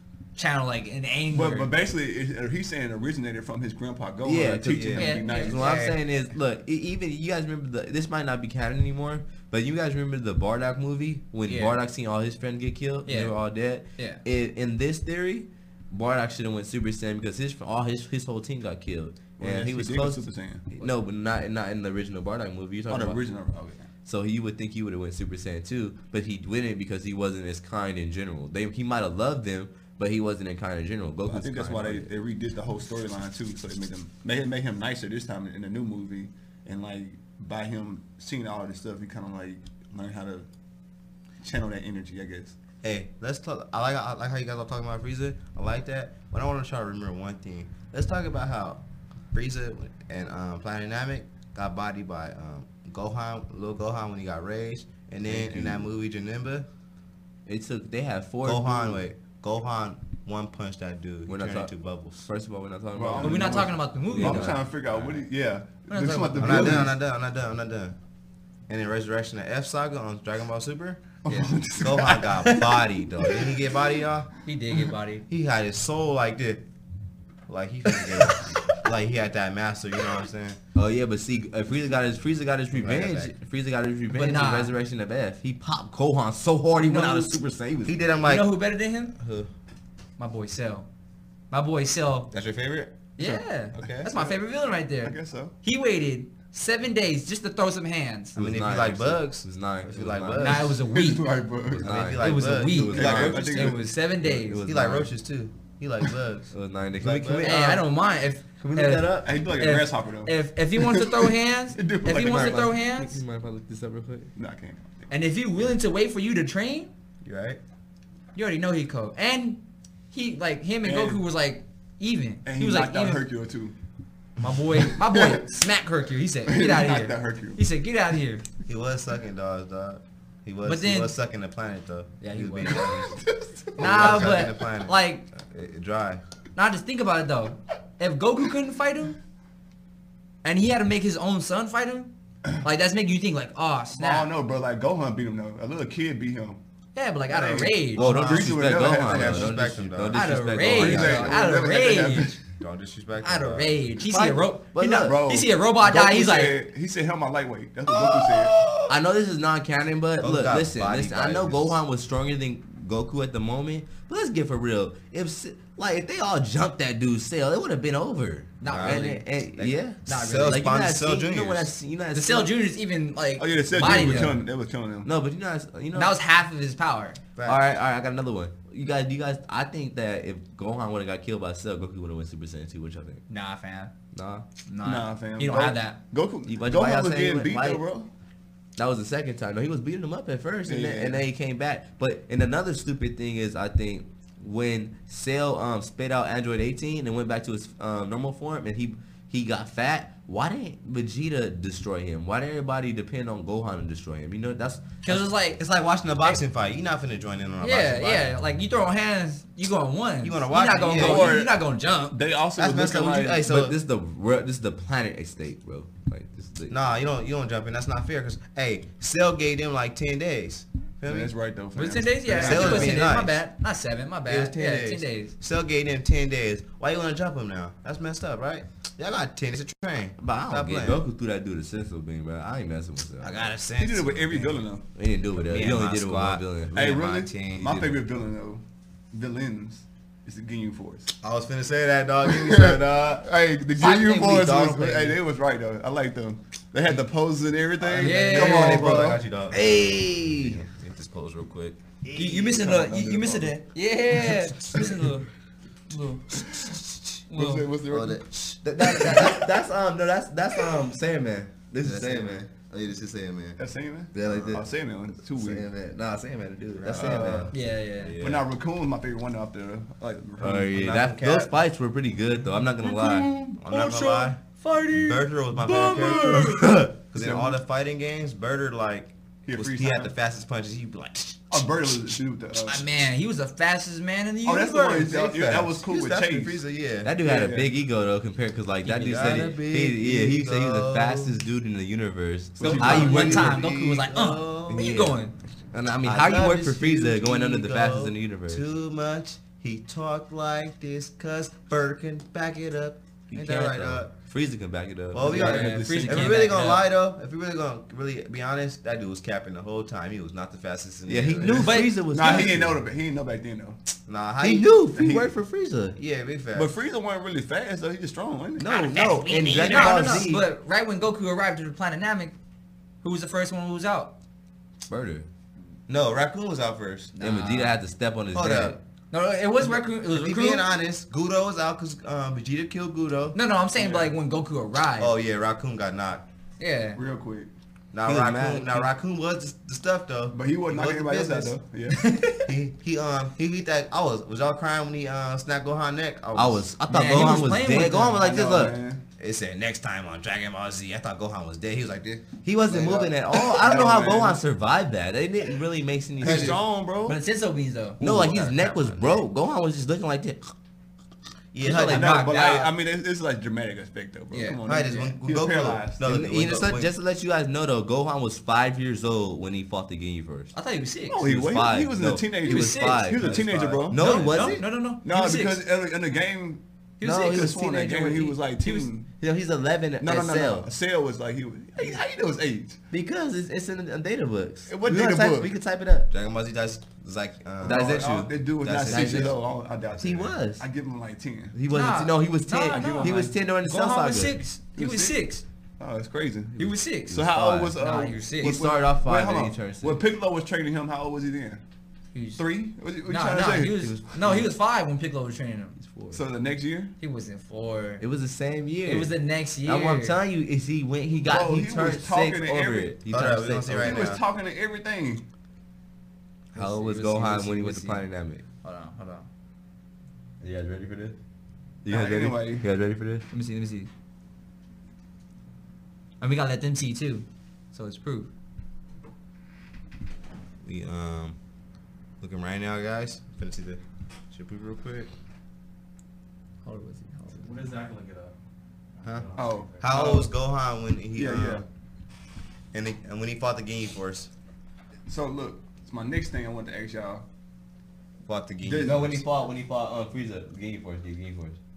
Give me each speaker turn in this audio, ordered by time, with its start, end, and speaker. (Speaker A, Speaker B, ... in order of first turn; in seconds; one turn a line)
Speaker A: 0.3-1.7
Speaker B: 1.3-5.6
Speaker C: 4.2-23.2
Speaker A: 5.0-6.0
Speaker A: 11.5-11.8
Speaker A: 13.1-13.3
Speaker A: 14.0-14.2
Speaker B: 19.4-20.6
Speaker B: 22.9-23.9
Speaker C: 24.0-32.1
Speaker B: 31.3-40.5
Speaker B: 41.4-42.6
Speaker D: 42.8-48.8
Speaker D: 49.3-56.7
Speaker C: 55.2-55.8
Speaker C: 57.5-59.0
Speaker D: 58.4-62.2
Speaker C: 61.3-61.7
Speaker C: 62.2-64.6
Speaker B: 62.9-66.9
Speaker A: 63.2-65.1
Speaker A: 65.9-66.9
Speaker D: 66.4-68.0
Speaker D: 68.7-71.1
Speaker B: 71.2-72.3
Speaker A: 71.3-71.5
Speaker D: 71.8-74.3
Speaker A: 72.2-72.7
Speaker A: 74.5-75.2
Speaker D: 75.3-76.6
Speaker D: 77.5-80.6
Speaker A: 78.0-78.4
Speaker C: 80.7-88.0
Speaker D: 82.7-83.3
Speaker A: 84.1-84.7
Speaker A: 86.8-87.3
Speaker D: 87.8-88.6
Speaker A: 88.2-89.1
Speaker D: 89.1-89.5
Speaker A: 90.2-90.9
Speaker A: 91.5-92.3
Speaker D: 92.3-94.1
Speaker A: 93.2-98.3
Speaker B: 94.0-94.4
Speaker B: 95.0-95.5
Speaker C: 98.3-100.7
Speaker D: 98.3-100.8
Speaker A: 100.4-101.3
Speaker B: 100.8-102.0
Speaker C: 101.7-105.1
Speaker D: 101.8-103.2
Speaker A: 102.2-104.6
Speaker B: 102.9-103.8
Speaker D: 104.6-107.6
Speaker C: 106.5-107.9
Speaker A: 107.4-113.2
Speaker C: 108.6-109.3
Speaker B: 109.2-112.6
Speaker C: 112.2-114.3
Speaker B: 114.3-115.0
Speaker A: 115.1-116.9
Speaker D: 117.2-117.6
Speaker A: 118.3-123.2
Speaker B: 120.8-121.2
Speaker B: 122.4-123.7
Speaker A: 124.4-128.4
Speaker B: 124.8-125.6
Speaker B: 126.5-127.6
Speaker D: 128.7-133.1
Speaker A: 130.6-131.1
Speaker A: 132.2-133.2
Speaker B: 133.2-134.4
Speaker A: 133.8-135.3
Speaker D: 133.8-136.2
Speaker A: 136.5-139.2
Speaker A: 140.4-144.3
Speaker B: 143.9-146.6
Speaker A: 146.9-148.0
Speaker B: 147.3-149.5
Speaker C: 148.0-151.4
Speaker D: 148.0-150.2
Speaker A: 150.1-152.4
Speaker B: 150.6-152.4
Speaker D: 152.6-153.8
Speaker A: 153.2-156.6
Speaker C: 154.0-155.2
Speaker B: 155.0-158.6
Speaker D: 157.9-159.0
Speaker C: 158.9-172.5
Speaker D: 160.2-161.8
Speaker A: 168.6-169.2
Speaker D: 168.6-171.7
Speaker A: 170.1-170.7
Speaker A: 172.1-174.4
Speaker B: 173.4-175.1
Speaker C: 173.7-174.4
Speaker C: 175.0-176.1
Speaker A: 175.9-177.2
Speaker D: 177.3-177.6
Speaker C: 177.4-183.2
Speaker A: 183.3-183.9
Speaker C: 184.1-184.4
Speaker A: 184.7-186.0
Speaker B: 184.8-188.1
Speaker C: 186.4-187.8
Speaker C: 188.8-205.2
Speaker B: 190.7-191.2
Speaker A: 205.0-206.4
Speaker D: 205.6-208.3
Speaker A: 207.6-212.2
Speaker D: 210.2-211.3
Speaker B: 210.9-213.4
Speaker D: 212.6-213.8
Speaker C: 213.4-216.8
Speaker D: 216.7-221.3
Speaker B: 221.1-223.0
Speaker A: 221.7-225.3
Speaker D: 222.3-223.4
Speaker C: 222.5-223.0
Speaker D: 224.3-231.1
Speaker C: 230.2-233.4
Speaker D: 233.2-234.6
Speaker B: 233.8-234.8
Speaker C: 234.9-237.0
Speaker D: 235.4-237.8
Speaker B: 236.7-241.1
Speaker C: 237.6-238.0
Speaker D: 241.2-245.2
Speaker B: 242.2-249.2
Speaker D: 247.8-252.8
Speaker A: 248.0-248.9
Speaker C: 249.5-250.6
Speaker A: 252.1-255.3
Speaker B: 252.2-253.5
Speaker A: 255.9-256.5
Speaker A: 257.3-257.7
Speaker B: 257.3-258.2
Speaker D: 257.9-258.3
Speaker C: 258.6-262.4
Speaker A: 258.8-259.4
Speaker D: 261.8-263.6
Speaker B: 263.6-265.6
Speaker D: 264.1-264.6
Speaker C: 264.1-264.6
Speaker C: 265.3-267.5
Speaker D: 266.8-268.4
Speaker B: 266.9-267.5
Speaker A: 267.5-268.1
Speaker C: 268.1-268.4
Speaker B: 268.2-270.8
Speaker C: 270.4-273.3
Speaker D: 270.7-271.5
Speaker A: 272.8-276.8
Speaker D: 273.5-281.4
Speaker B: 277.1-277.6
Speaker B: 279.4-280.1
Speaker B: 281.5-282.9
Speaker A: 282.7-285.2
Speaker B: 284.4-286.6
Speaker D: 285.0-287.1
Speaker C: 287.0-293.6
Speaker B: 287.2-287.7
Speaker D: 288.8-291.4
Speaker A: 289.0-289.4
Speaker B: 292.6-293.6
Speaker A: 292.6-295.3
Speaker D: 292.7-294.9
Speaker C: 294.7-298.6
Speaker D: 296.0-304.1
Speaker C: 303.3-306.6
Speaker D: 305.1-312.5
Speaker A: 305.2-306.8
Speaker B: 305.3-305.9
Speaker C: 311.1-312.8
Speaker A: 311.6-312.4
Speaker B: 312.1-313.8
Speaker D: 314.1-314.7
Speaker C: 314.4-315.9
Speaker B: 314.9-315.3
Speaker D: 315.9-316.7
Speaker B: 316.5-318.6
Speaker C: 318.6-320.4
Speaker A: 318.6-322.3
Speaker D: 319.4-319.9
Speaker A: 323.0-324.1
Speaker C: 324.9-325.2
Speaker D: 325.9-327.1
Speaker A: 327.1-327.8
Speaker C: 327.2-328.8
Speaker D: 328.3-328.8
Speaker A: 329.1-330.7
Speaker D: 330.0-333.4
Speaker A: 333.3-335.1
Speaker B: 333.8-334.1
Speaker D: 335.0-336.2
Speaker A: 336.6-337.0
Speaker B: 336.9-337.5
Speaker D: 337.9-341.6
Speaker C: 338.0-338.9
Speaker B: 340.3-342.0
Speaker A: 341.9-342.5
Speaker D: 342.4-346.6
Speaker C: 346.3-348.8
Speaker A: 346.9-348.4
Speaker B: 348.2-349.0
Speaker D: 349.2-352.4
Speaker C: 352.4-356.6
Speaker B: 352.7-354.4
Speaker D: 356.2-356.6
Speaker B: 356.2-357.2
Speaker A: 357.0-358.0
Speaker D: 358.0-359.2
Speaker C: 358.0-360.5
Speaker D: 361.5-362.3
Speaker A: 361.6-362.7
Speaker B: 361.7-366.0
Speaker A: 364.3-365.1
Speaker D: 364.6-366.9
Speaker C: 366.0-370.5
Speaker A: 370.5-371.2
Speaker B: 371.1-374.0
Speaker C: 371.2-374.7
Speaker A: 372.4-373.1
Speaker D: 373.9-374.6
Speaker A: 373.9-375.6
Speaker B: 375.0-376.6
Speaker A: 377.0-377.5
Speaker C: 377.0-378.4
Speaker B: 377.2-379.1
Speaker A: 378.6-378.9
Speaker C: 379.2-380.7
Speaker B: 380.0-382.8
Speaker C: 382.9-386.1
Speaker B: 384.7-385.5
Speaker D: 386.1-388.1
Speaker B: 387.6-391.6
Speaker C: 387.6-389.4
Speaker D: 388.6-389.3
Speaker C: 389.9-390.6
Speaker C: 391.5-394.4
Speaker A: 391.7-395.4
Speaker B: 392.7-393.3
Speaker B: 394.7-395.1
Speaker B: 395.8-401.6
Speaker A: 396.6-397.2
Speaker C: 397.1-397.8
Speaker A: 397.8-398.5
Speaker C: 398.4-400.0
Speaker A: 402.1-402.4
Speaker B: 402.4-403.9
Speaker A: 403.1-406.2
Speaker C: 403.9-404.5
Speaker B: 406.1-406.9
Speaker A: 407.0-408.0
Speaker C: 408.0-414.1
Speaker A: 408.9-410.2
Speaker B: 411.2-412.9
Speaker D: 413.1-414.2
Speaker B: 413.7-415.2
Speaker A: 416.5-418.1
Speaker C: 416.5-418.4
Speaker A: 418.6-419.3
Speaker C: 420.4-421.2
Speaker C: 421.8-423.2
Speaker B: 421.9-422.6
Speaker A: 423.3-423.9
Speaker A: 426.2-428.3
Speaker D: 430.6-431.4
Speaker D: 432.2-435.1
Speaker A: 436.6-437.4
Speaker E: 437.3-438.4
Speaker E: 439.0-439.8
Speaker D: 439.0-441.6
Speaker B: 439.4-440.3
Speaker B: 441.1-441.6
Speaker D: 442.7-444.3
Speaker B: 445.1-447.2
Speaker D: 448.2-449.2
Speaker B: 448.6-449.2
Speaker C: 448.8-451.6